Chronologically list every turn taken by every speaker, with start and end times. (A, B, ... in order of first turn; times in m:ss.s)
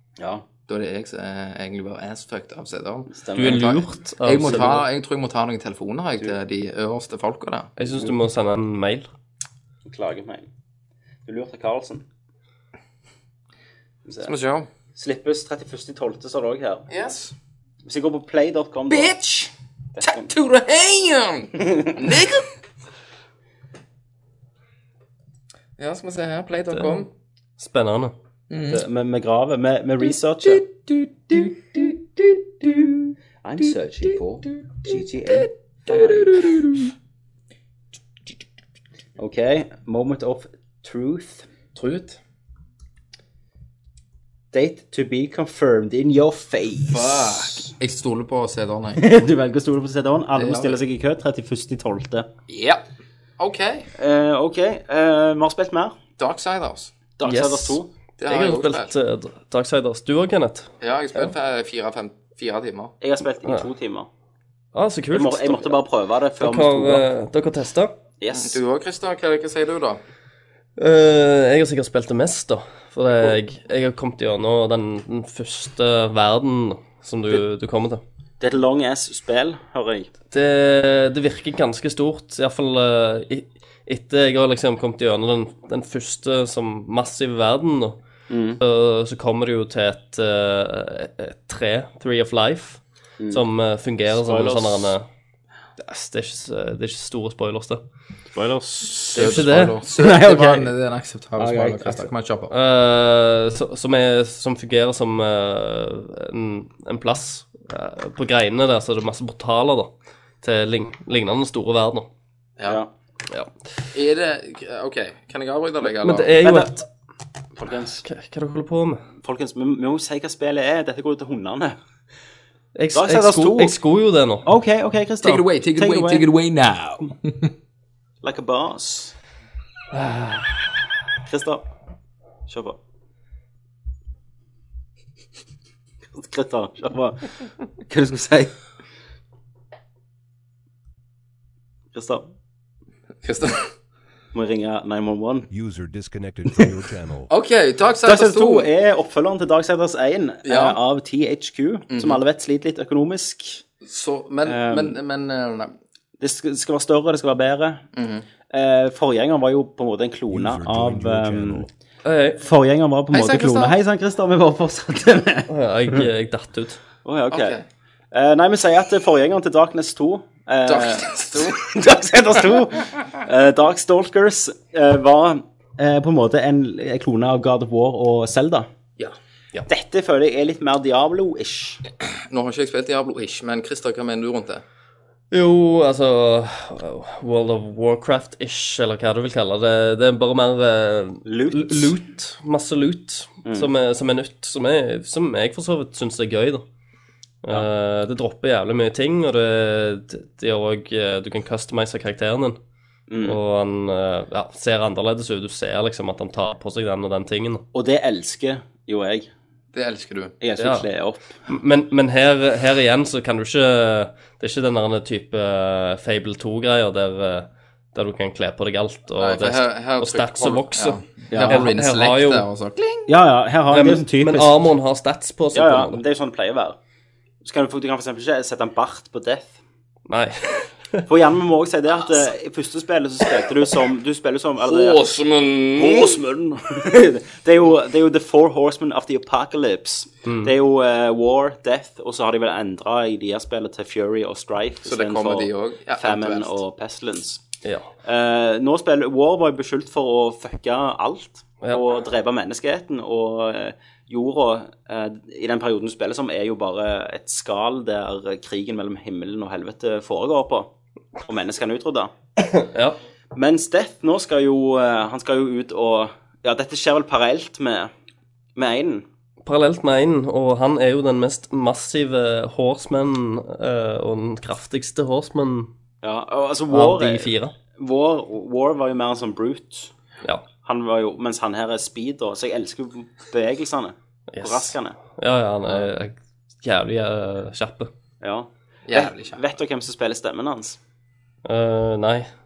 0:00.2-0:00.4 A
0:00.7-0:07.7 B
0:03.1-0:03.8 A
0:03.4-0:04.9 C
0:04.4-0:04.8 A
0:07.8-0:09.1 C
0:09.9-0:10.5 A
0:11.3-0:12.0 A
0:14.1-0:14.3 A
0:14.2-0:14.7 B
0:15.0-0:16.9 A
0:16.9-0:17.3 B
0:17.8-0:19.1 A
0:18.9-0:22.5 B
0:20.0-0:20.3 A
0:21.6-0:22.0 A
0:25.8-0:27.1 B
0:27.6-0:28.1 C
0:28.5-0:28.8 B
0:28.7-0:30.7 A
0:30.5-0:32.7 B
0:33.4-0:36.5 A
0:35.3-0:36.9 B
0:39.2-0:41.5 A
0:41.8-0:42.2 B
0:44.5-0:47.7 A
0:46.9-0:49.0 B
0:49.0-0:52.3 A
0:50.4-0:50.8 B
0:52.5-0:52.8 B
0:53.4-0:53.9 B
0:54.0-0:56.0 A
0:56.2-0:56.9 B
0:57.2-0:57.9 A
0:57.2-1:01.3 C
0:58.2-0:58.9 B
1:00.8-1:03.0 B
1:03.0-1:04.1 A
1:04.7-1:05.8 C
1:05.1-1:07.0 A
1:06.4-1:08.0 C
1:08.2-1:08.6 A
1:08.3-1:10.0 B
1:10.8-1:18.0 C
1:18.4-1:20.1 A
1:20.3-1:28.0 C
1:28.3-1:28.6 A
1:28.6-1:35.1 C
1:34.1-1:34.9 A
1:35.8-1:37.8 C
1:38.3-1:40.7 A
1:39.1-1:39.8 C
1:39.1-1:42.5 B
1:41.4-1:42.1 A
1:42.5-1:52.1 C
1:53.9-1:56.4 B
1:56.0-1:56.9 C
1:56.4-1:56.7 A
1:57.6-1:58.0 A
1:58.0-1:59.0 C
1:59.2-2:01.8 A
2:02.8-2:04.5 C
2:02.9-2:03.8 A
2:04.4-2:06.3 A
2:05.2-2:07.5 B
2:08.2-2:09.2 A
2:09.9-2:10.8 C
2:11.2-2:11.7 A
2:12.5-2:12.8 A
2:16.2-2:18.6 A
2:21.9-2:22.3 A
2:23.2-2:23.7 B
2:24.3-2:25.5 A
2:25.5-2:27.3 D
2:27.3-2:28.7 B
2:28.0-2:33.6 A
2:30.4-2:30.8 B
2:31.9-2:32.2 B
2:33.8-2:35.8 B
2:34.5-2:35.0 A
2:36.2-2:37.8 A
2:37.9-2:38.2 B
2:38.5-2:41.7 A
2:40.3-2:41.7 D
2:42.0-2:42.4 C
2:42.4-2:46.1 A
2:43.1-2:43.8 B
2:45.5-2:46.8 C
2:47.0-2:47.6 A
2:47.3-2:47.7 B
2:48.1-2:58.7 A
2:50.7-2:51.7 B
2:59.7-3:01.8 A
3:02.0-3:04.6 B
3:05.3-3:16.6 C
3:11.2-3:11.9 A
3:17.4-3:22.6 C
3:23.1-3:23.4 A
3:23.2-3:27.6 C
3:27.7-3:29.3 A
3:29.7-3:30.4 B
3:30.4-3:31.4 A
3:30.6-3:30.9 C
3:31.5-3:42.5 C
3:39.2-3:43.1 B
3:41.3-3:41.7 A
3:43.1-3:44.7 A
3:43.7-3:46.0 C
3:45.5-3:46.8 A
3:47.4-3:49.6 A
3:50.1-3:51.0 C
3:51.1-3:55.1 A
3:54.6-3:56.2 B
3:55.8-4:07.4 A
4:00.2-4:00.5 C
4:04.8-4:06.6 B
4:07.6-4:07.9 C
4:08.0-4:20.7 A
4:21.2-4:22.1 A
4:22.5-4:23.0 C
4:23.3-4:27.9 A
4:28.6-4:29.0 A
4:29.4-4:35.7 C
4:36.0-4:39.9 A
4:36.7-4:37.5 C
4:40.6-4:45.0 A
4:44.3-4:47.9 C
4:45.6-4:45.9 B
4:48.2-4:50.8 A
4:48.9-4:49.4 B
4:51.4-4:52.3 C